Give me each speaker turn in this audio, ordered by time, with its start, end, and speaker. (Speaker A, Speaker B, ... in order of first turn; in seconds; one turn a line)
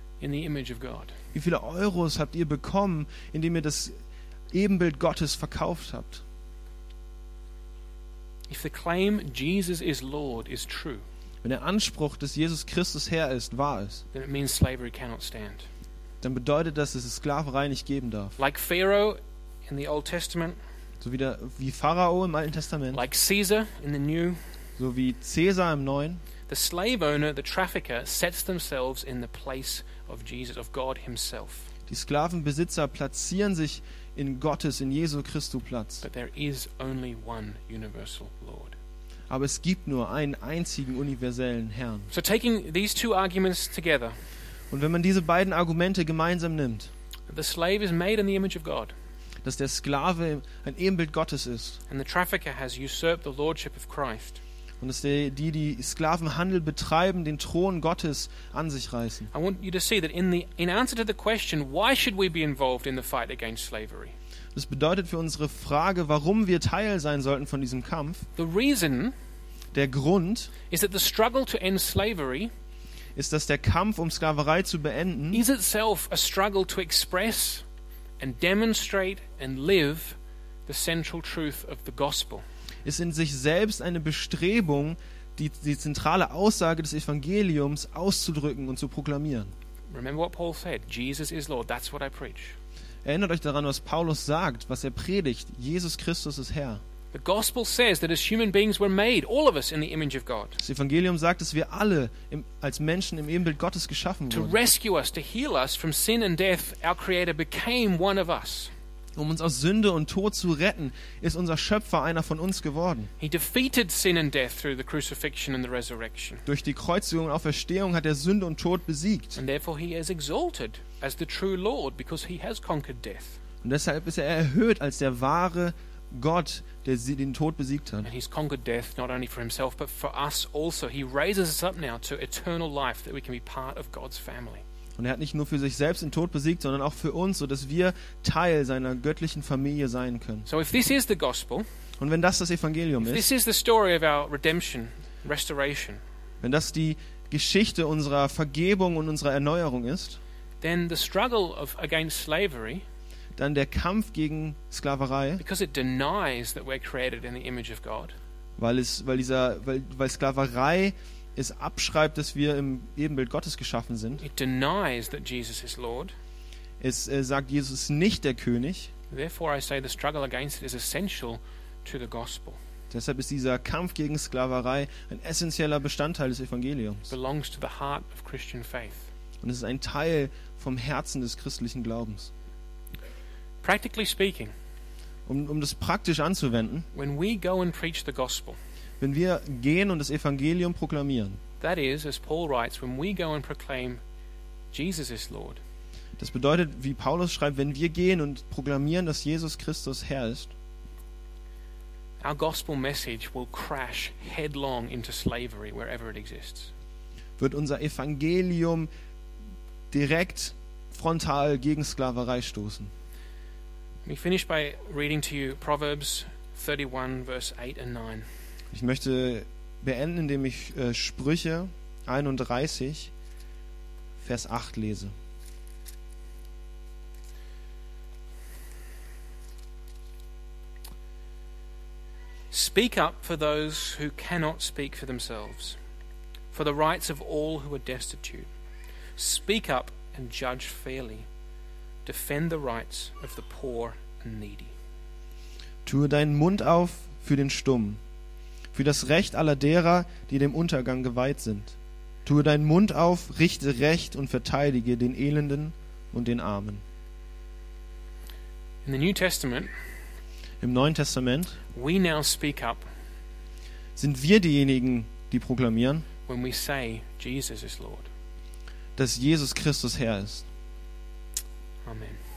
Speaker A: 0.2-1.1
Speaker B: 1.3-3.9
Speaker B: 4.5-6.2
Speaker A: 8.5-11.0
Speaker B: 11.4-14.0
Speaker A: 14.1-15.7
Speaker B: 16.2-18.4
Speaker A: 18.4-20.6
Speaker B: 21.0-23.0
Speaker A: 22.9-24.4
Speaker B: 24.8-26.2
Speaker A: 26.5-31.7
Speaker B: 31.9-36.0
Speaker A: 36.0-38.7
Speaker B: 39.3-42.1
Speaker A: 42.1-44.1
Speaker B: 44.7-46.9
Speaker A: 47.3-48.9
Speaker B: 49.4-51.8
Speaker A: 51.9-54.4
Speaker B: 54.8-59.3
Speaker A: 59.3-64.1
Speaker B: 64.5-68.2
Speaker A: 68.4-69.1
Speaker B: 69.7-70.5
Speaker A: 70.7-72.5
Speaker B: 73.2-75.4
Speaker A: 75.3-77.6
Speaker A: 78.2-82.4
Speaker B: 82.8-89.5
Speaker A: 89.9-92.6
Speaker B: 93.0-96.8
Speaker A: 97.1-100.6
Speaker B: 100.6-104.6
Speaker A: 104.3-108.7
Speaker B: 109.2-113.1
Speaker A: 113.2-116.4
Speaker B: 116.5-119.4
Speaker A: 119.3-123.4
Speaker B: 123.6-128.1
Speaker A: 128.0-134.6
Speaker B: 135.0-140.5
Speaker A: 140.5-141.7
Speaker B: 142.0-143.3
Speaker A: 143.0-146.0
Speaker B: 146.4-150.2
Speaker A: 150.6-152.8
Speaker B: 153.3-155.4
Speaker A: 155.4-158.2
Speaker B: 158.6-164.2
Speaker A: 164.2-166.1
Speaker B: 166.8-168.9
Speaker A: 169.1-172.6
Speaker B: 172.9-177.1
Speaker A: 177.1-179.1
Speaker B: 179.4-182.3
Speaker A: 183.6-184.5
Speaker B: 185.3-186.9
Speaker A: 186.9-188.6
Speaker B: 189.0-191.4
Speaker A: 191.6-194.0
Speaker A: 194.7-195.6
Speaker B: 196.2-200.5
Speaker A: 202.2-206.7
Speaker B: 207.4-208.9
Speaker B: 209.9-212.9
Speaker A: 214.0-218.3
Speaker B: 218.7-223.1
Speaker B: 224.2-225.1
Speaker A: 232.5-235.8
Speaker A: 236.5-238.5
Speaker A: 239.2-241.3
Speaker A: 242.0-244.7
Speaker B: 245.8-248.0
Speaker B: 248.7-256.8
Speaker A: 258.8-259.7
Speaker B: 260.6-261.6
Speaker A: 261.7-262.8
Speaker B: 264.0-266.1
Speaker A: 266.3-268.1
Speaker B: 268.9-270.4
Speaker A: 271.8-272.2